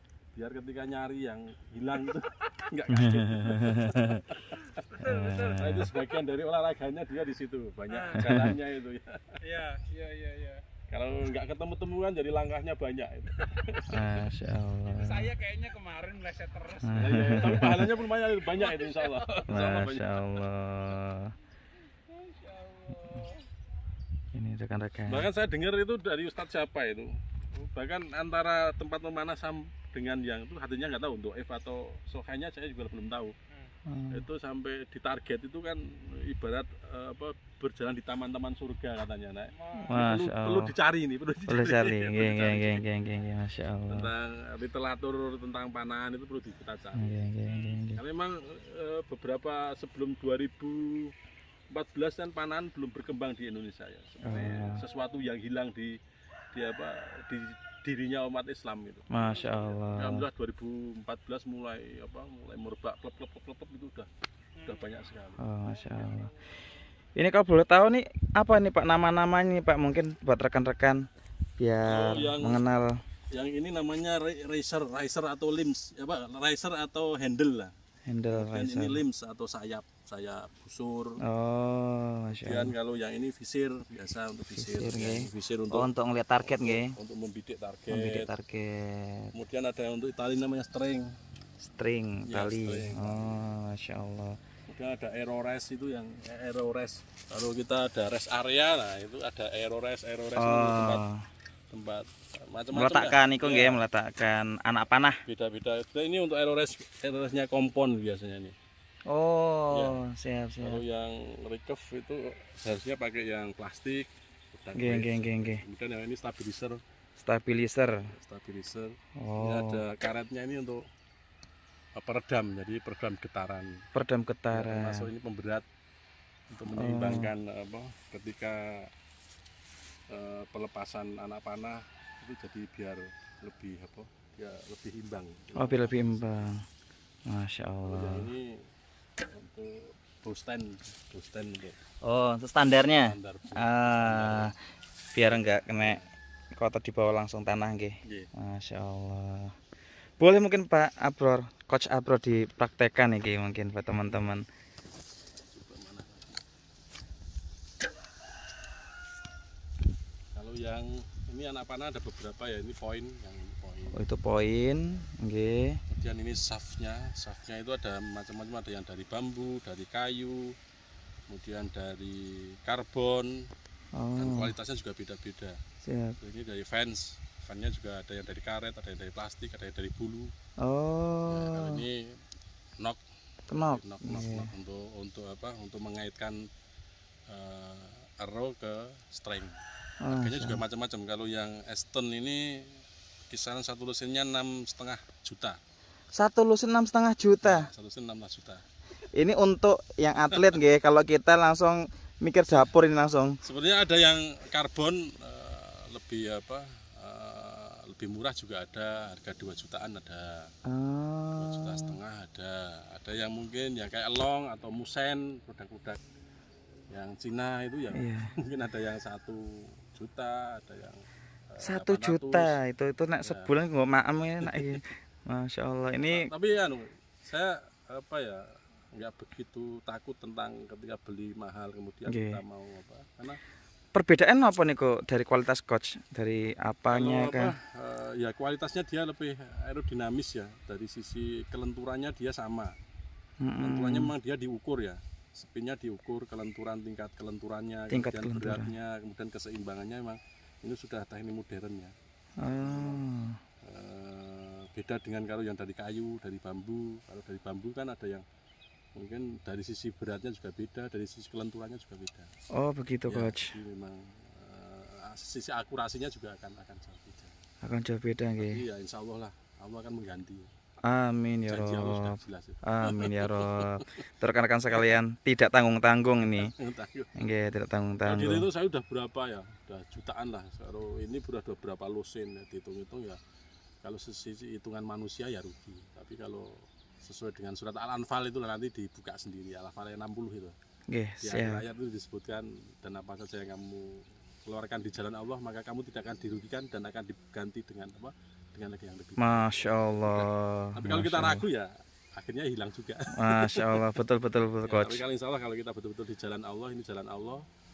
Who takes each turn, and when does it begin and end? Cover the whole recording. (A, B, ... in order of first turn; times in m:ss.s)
0:00.3-0:04.7 A
0:02.9-0:04.2 B
0:04.8-0:05.7 C
0:05.0-0:05.9 B
0:05.5-0:09.4 A
0:07.9-0:08.3 C
0:08.2-0:08.6 B
0:09.4-0:10.6 C
0:10.9-0:13.8 A
0:13.9-0:15.3 B
0:14.9-0:17.7 C
0:16.8-0:17.9 B
0:16.9-0:20.2 A
0:18.5-0:19.4 C
0:19.5-0:21.3 B
0:22.1-0:23.4 C
0:24.3-0:25.3 B
0:25.1-0:33.3 A
0:33.8-0:34.2 B
0:34.1-0:42.8 A
0:39.6-0:40.0 C
0:39.8-0:40.7 B
0:41.5-0:44.1 B
0:43.9-0:47.1 A
0:46.9-0:48.0 B
0:47.9-0:51.1 A
0:51.7-0:56.0 A
0:54.2-0:54.8 B
0:56.5-1:04.1 A
0:59.1-1:00.2 B
1:04.6-1:04.8 C
1:04.6-1:05.4 A
1:05.4-1:06.3 B
1:05.6-1:06.3 C
1:07.2-1:11.1 B
1:11.6-1:13.0 B
1:11.8-1:12.6 A
1:13.3-1:17.7 A
1:18.1-1:19.0 B
1:18.3-1:21.2 A
1:21.2-1:22.7 B
1:22.3-1:25.9 A
1:24.6-1:27.0 B
1:26.4-1:28.3 A
1:27.9-1:29.3 B
1:29.3-1:31.1 A
1:31.6-1:34.4 B
1:32.3-1:33.4 A
1:34.7-1:41.0 A
1:40.4-1:41.2 B
1:41.7-1:43.8 A
1:42.7-1:45.2 B
1:45.3-1:48.6 A
1:49.1-1:50.8 B
1:49.7-1:50.0 A
1:50.6-1:56.8 A
1:54.8-1:55.6 B
1:57.2-1:58.1 B
1:58.1-2:00.8 A
1:59.2-1:59.8 B
2:02.0-2:03.8 A
2:03.9-2:05.1 B
2:04.5-2:05.6 A
2:06.5-2:08.9 A
2:06.7-2:07.3 B
2:10.1-2:16.4 A
2:15.6-2:16.6 B
2:17.3-2:18.3 B
2:17.8-2:18.5 A
2:19.3-2:21.8 A
2:22.0-2:24.5 B
2:23.0-2:24.5 A
2:25.1-2:26.0 B
2:25.2-2:26.1 A
2:26.5-2:29.5 B
2:30.2-2:34.4 B
2:35.4-2:36.4 A
2:40.4-2:44.0 A
2:43.9-2:45.8 B
2:45.9-2:50.6 A
2:51.3-2:53.3 A
2:53.9-2:54.5 B
2:54.2-2:55.6 A
2:55.8-2:56.2 B
2:56.2-3:00.3 A
3:00.6-3:01.8 B
3:01.3-3:02.0 A
3:03.5-3:04.5 B
3:03.6-3:06.4 A
3:07.3-3:09.6 A
3:10.0-3:10.6 B
3:10.1-3:12.6 A
3:13.3-3:15.6 A
3:16.1-3:17.7 B
3:17.4-3:18.6 A
3:19.1-3:23.4 B
3:23.4-3:30.5 A
3:30.6-3:31.9 B
3:31.4-3:36.0 A
3:36.9-3:41.0 A
3:37.9-3:38.3 B
3:41.5-3:42.6 A
3:41.6-3:46.3 B
3:43.2-3:43.5 A
3:44.4-3:44.8 A
3:46.0-3:53.4 A
3:52.1-3:52.4 B
3:53.9-3:57.5 B
3:56.9-4:02.7 A
4:03.4-4:04.1 B
4:03.6-4:11.9 A
4:07.9-4:08.7 B
4:12.4-4:13.4 B
4:12.6-4:13.0 A
4:13.6-4:18.2 A
4:19.0-4:22.3 A
4:22.5-4:23.5 B
4:23.1-4:27.4 A
4:27.6-4:28.6 B
4:28.4-4:30.5 A
4:30.8-4:36.5 B
4:31.5-4:33.9 A
4:36.4-4:37.1 A
4:37.2-4:38.4 B
4:38.0-4:43.2 A
4:43.8-4:50.6 A
4:50.9-4:51.6 B
4:51.2-5:03.9 A
4:59.2-5:01.4 B
5:03.1-5:05.0 B
5:04.6-5:07.4 A